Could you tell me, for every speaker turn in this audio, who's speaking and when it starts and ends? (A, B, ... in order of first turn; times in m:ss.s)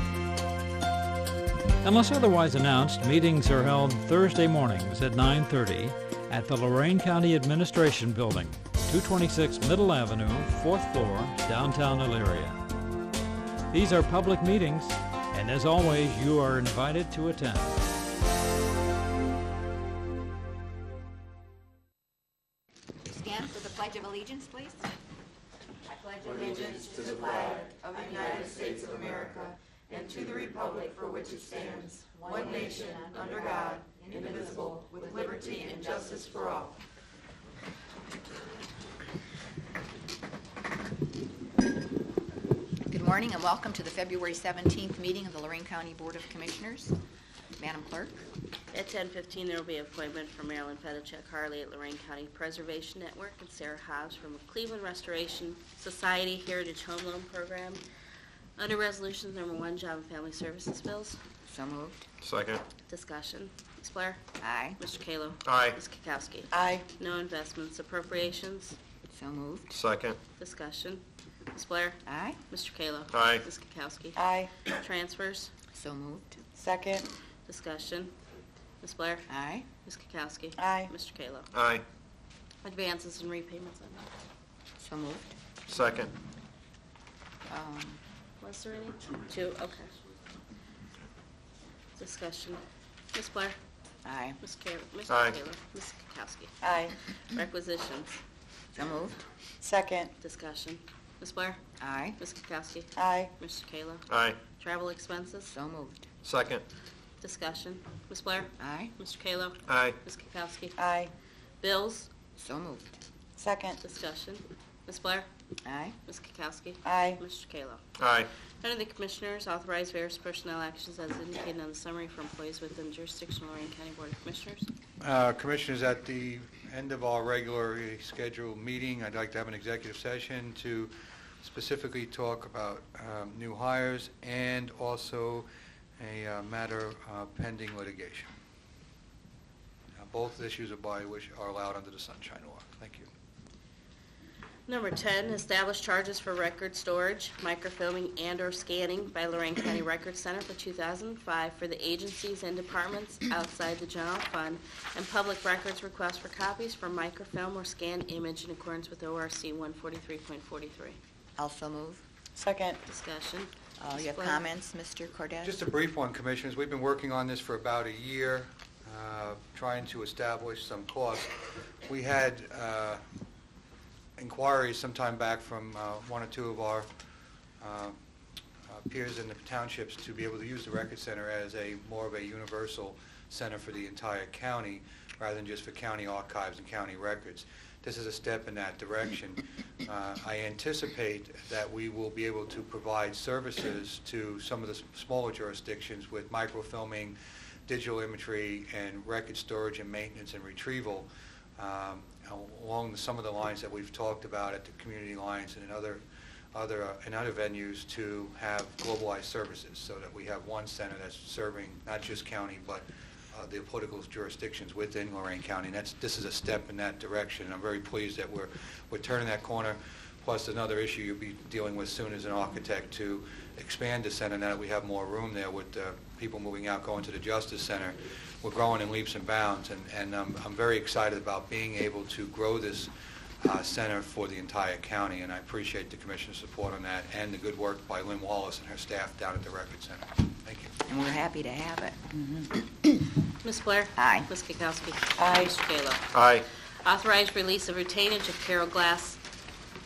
0:01.8-0:12.6 A
0:13.7-0:17.8 A
0:23.0-0:24.9 B
0:25.9-0:36.7 B
0:42.9-0:47.0 B
0:47.6-0:48.2 B
0:48.7-0:57.8 C
0:58.6-1:01.2 C
1:01.5-1:02.1 B
1:02.2-1:02.6 D
1:02.9-1:04.2 C
1:04.4-1:04.8 B
1:04.8-1:08.8 C
1:05.4-1:05.8 D
1:06.5-1:06.9 E
1:09.1-1:09.8 B
1:09.7-1:10.2 D
1:10.4-1:12.0 C
1:12.1-1:12.4 B
1:12.5-1:15.5 C
1:13.1-1:13.4 D
1:14.2-1:14.5 E
1:15.7-1:16.4 B
1:16.5-1:17.1 E
1:17.4-1:18.1 C
1:18.8-1:19.3 C
1:19.3-1:19.7 B
1:19.8-1:21.5 C
1:20.6-1:20.9 E
1:21.5-1:21.8 D
1:22.6-1:24.1 C
1:24.8-1:25.4 B
1:25.7-1:26.1 D
1:27.5-1:28.0 B
1:28.4-1:29.9 C
1:32.0-1:32.6 C
1:33.1-1:33.6 C
1:34.0-1:34.4 B
1:34.4-1:36.5 C
1:35.1-1:35.3 D
1:36.6-1:36.9 E
1:37.1-1:38.2 C
1:38.8-1:39.2 B
1:39.6-1:40.1 E
1:40.2-1:41.6 C
1:41.8-1:42.2 B
1:42.2-1:45.5 C
1:43.0-1:43.3 E
1:44.1-1:44.4 D
1:45.5-1:46.1 B
1:46.2-1:46.6 D
1:47.2-1:50.8 C
1:48.6-1:48.9 B
1:49.7-1:50.0 D
1:50.8-1:51.1 E
1:51.6-1:52.1 C
1:52.4-1:53.0 B
1:53.4-1:53.8 E
1:53.8-1:55.3 C
1:55.6-1:56.0 B
1:56.1-1:57.8 C
1:56.8-1:57.2 E
1:58.0-1:58.3 D
1:58.6-2:04.7 C
2:05.0-2:18.3 F
2:20.0-2:23.1 F
2:24.7-2:41.0 C
2:41.4-2:42.0 B
2:42.4-2:42.8 E
2:42.8-2:44.4 C
2:43.8-2:45.6 B
2:45.4-2:51.3 F
2:51.8-2:53.0 F
2:54.2-2:56.9 F
2:57.6-2:58.0 F
2:58.7-3:17.2 F
3:17.7-3:26.0 F
3:26.5-4:00.7 F
4:00.9-4:02.4 B
4:03.4-4:06.1 C
4:04.0-4:04.3 B
4:06.1-4:06.4 D
4:06.8-4:09.2 C